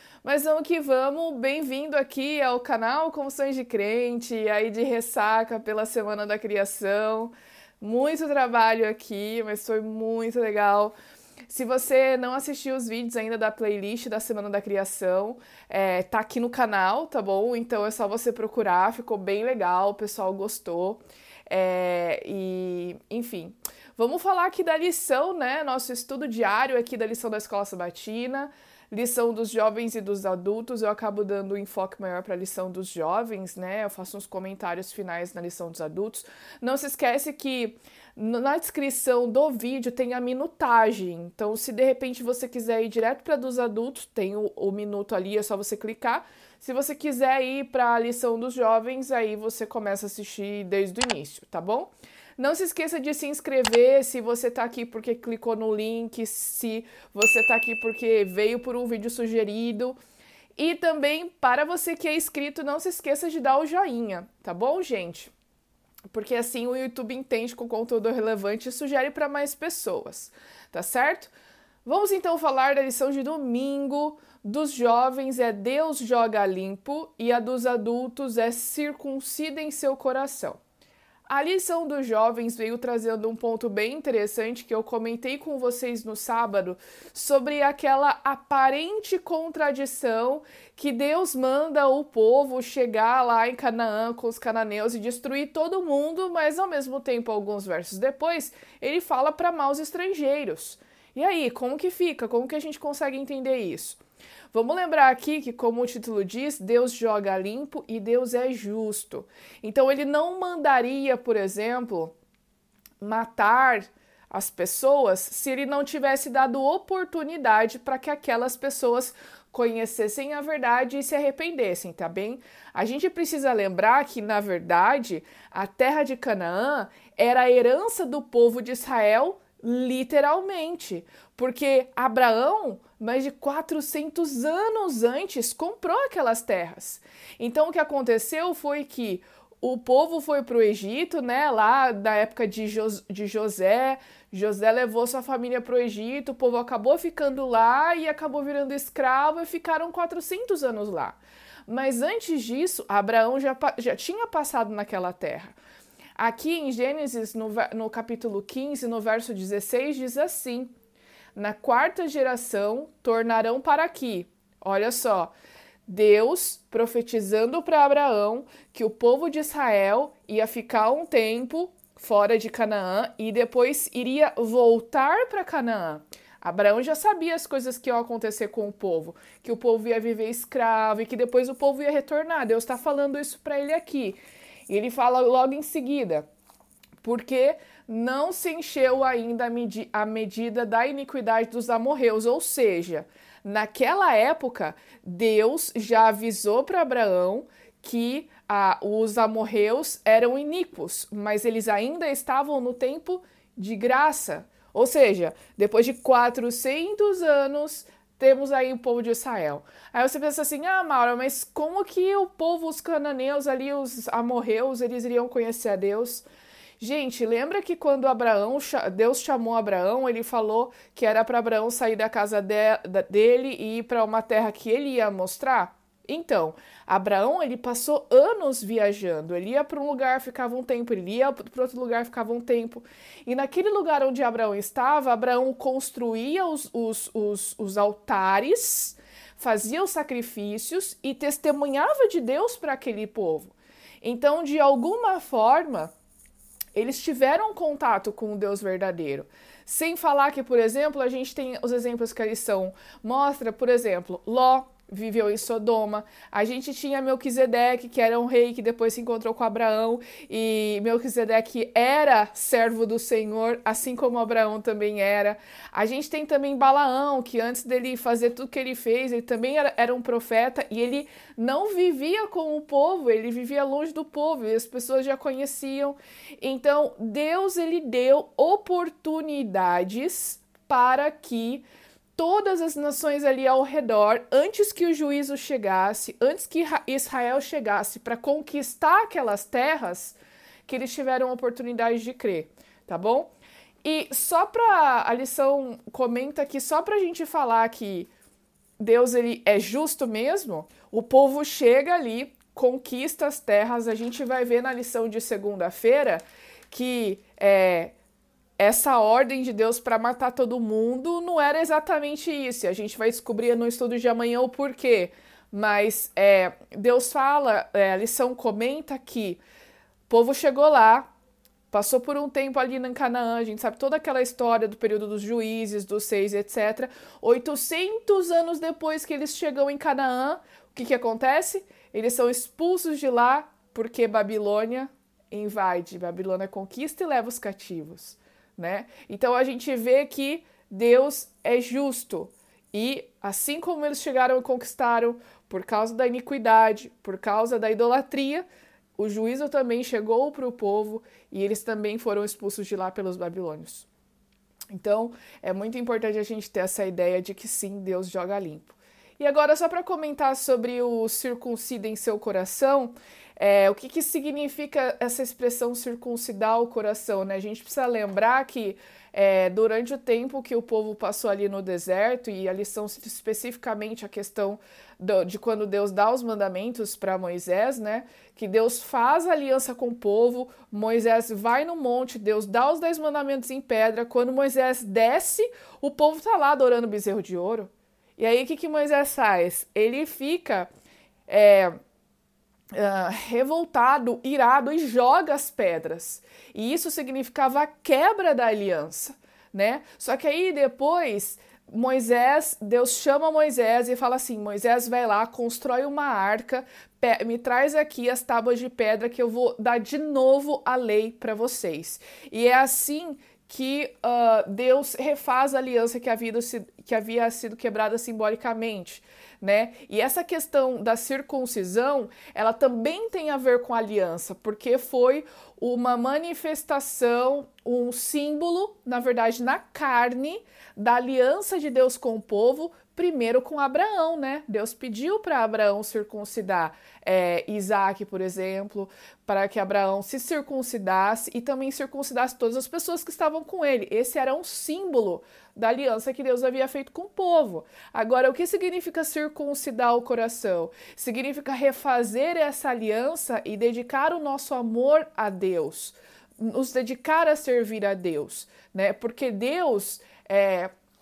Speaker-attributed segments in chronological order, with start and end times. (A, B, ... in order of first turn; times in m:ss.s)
0:00.2-0:10.9 A
0:11.5-1:00.0 A
1:00.6-1:05.3 A
1:06.1-1:11.3 A
1:11.8-1:20.6 A
1:21.3-1:44.0 A
1:44.5-1:52.1 A
1:53.0-2:35.6 A
2:36.2-2:40.7 A
2:41.3-2:45.3 A
2:45.9-3:06.3 A
3:07.0-3:36.3 A
3:36.8-4:05.9 A
4:06.8-4:41.6 A
4:42.2-4:53.3 A
4:53.8-4:58.1 A
4:58.8-5:07.9 A
5:08.6-5:19.4 A
5:20.1-5:21.1 A
5:21.7-5:48.4 A
5:49.0-5:53.9 A
5:54.7-6:30.7 A
6:31.3-6:31.8 A
6:32.7-7:40.7 A